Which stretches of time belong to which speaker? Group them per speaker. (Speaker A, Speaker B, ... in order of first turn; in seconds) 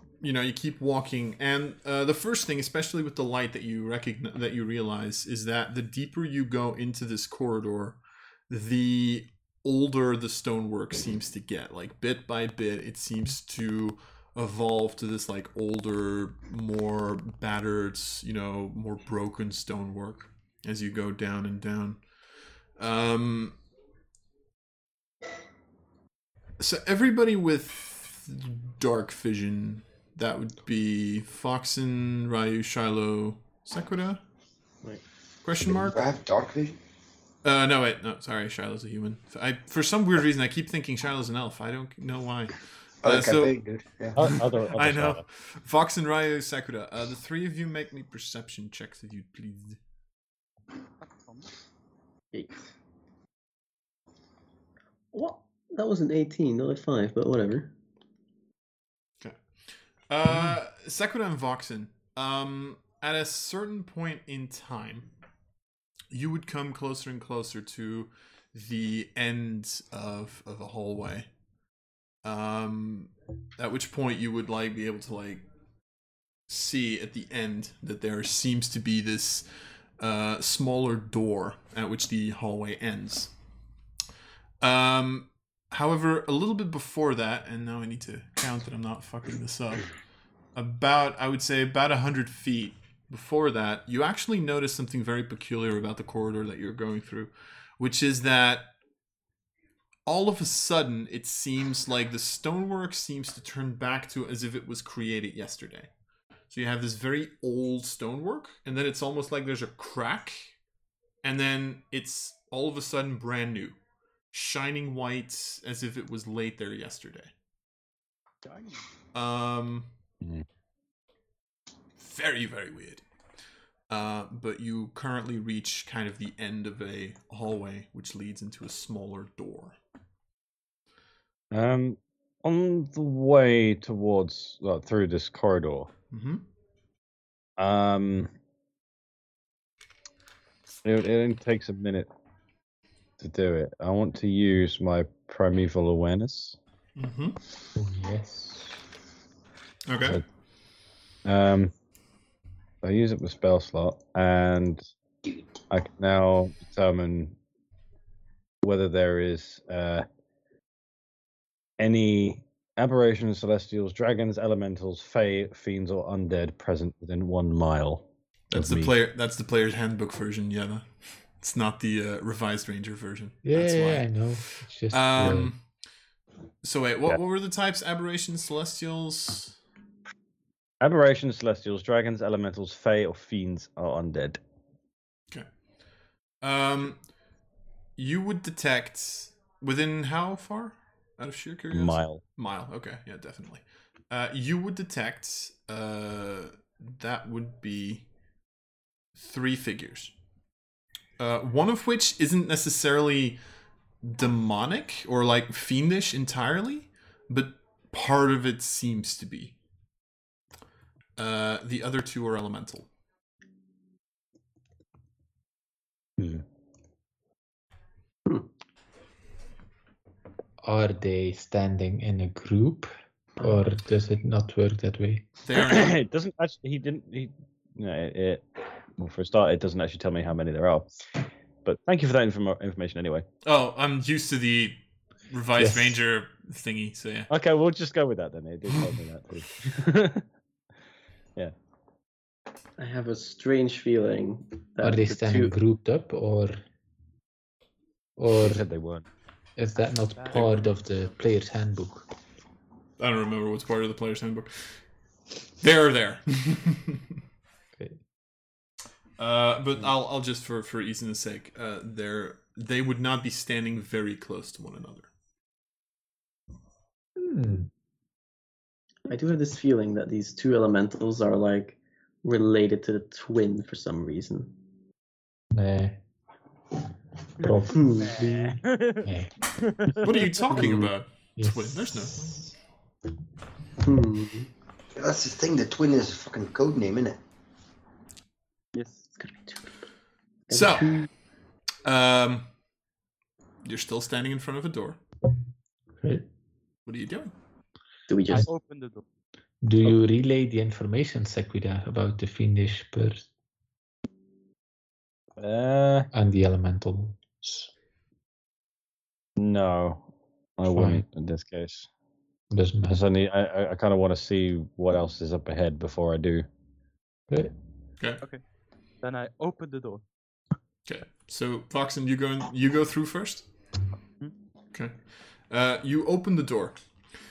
Speaker A: 0.2-22.0, 22.8-23.6, 26.6-34.2, 35.4-36.0, 37.4-43.5, 44.2-49.8, 60.1-65.1, 66.1-71.3, 72.2-75.5, 76.5-79.5, 80.0-83.3, 84.6-89.9, 90.5-98.7, 100.0-105.9, 106.5-110.5, 111.2-113.8, 114.3-117.3, 119.1-119.9, 122.0-123.0, 123.9-129.8, 136.1-136.4, 146.9-147.4, 149.9-150.2, 168.5-175.6, 176.6-179.6, 186.4-187.1, 188.0-198.1, 199.2-200.1, 201.2-203.4, 204.0-209.6, 211.2-212.9, 225.4-225.9, 233.4-234.8, 235.3-237.3, 250.3-250.6, 253.0-254.8, 255.6-257.0, 259.2-265.1, 280.0-282.5, 290.5-291.1, 291.8-292.5, 293.6-295.0, 296.9-297.3, 320.9-323.5, 325.5-326.8
Speaker B: 35.6-36.8, 43.0-44.4, 284.9-287.2
Speaker C: 44.1-45.2, 131.5-135.9, 137.6-138.3, 140.8-142.1, 143.2-146.6, 151.2-151.7, 152.8-154.8, 155.7-157.3, 158.6-160.1, 161.8-168.9, 180.8-184.4, 191.7-192.2, 216.2-216.4, 225.5-228.4, 229.0-230.9, 231.6-233.2, 237.3-240.2, 248.4-249.1, 305.4-306.1, 309.4-311.9, 312.9-316.4
Speaker D: 51.0-51.5, 118.4-118.8, 250.1-251.1, 278.1-280.3, 288.7-289.1, 298.3-299.0, 319.0-320.0
Speaker E: 52.3-52.7, 55.1-57.7, 242.8-245.5, 269.1-274.5, 277.7-278.2, 280.5-280.9, 283.8-284.5, 289.2-289.6, 290.5-291.1, 298.1-298.5
Speaker F: 147.8-148.7, 173.4-175.5, 220.6-225.3, 235.6-236.0, 244.8-246.6, 248.2-248.7, 249.6-252.1, 267.2-267.7, 275.5-276.0, 277.4-279.3, 281.4-282.5, 299.6-303.3, 306.1-307.7, 310.7-311.0, 312.5-313.0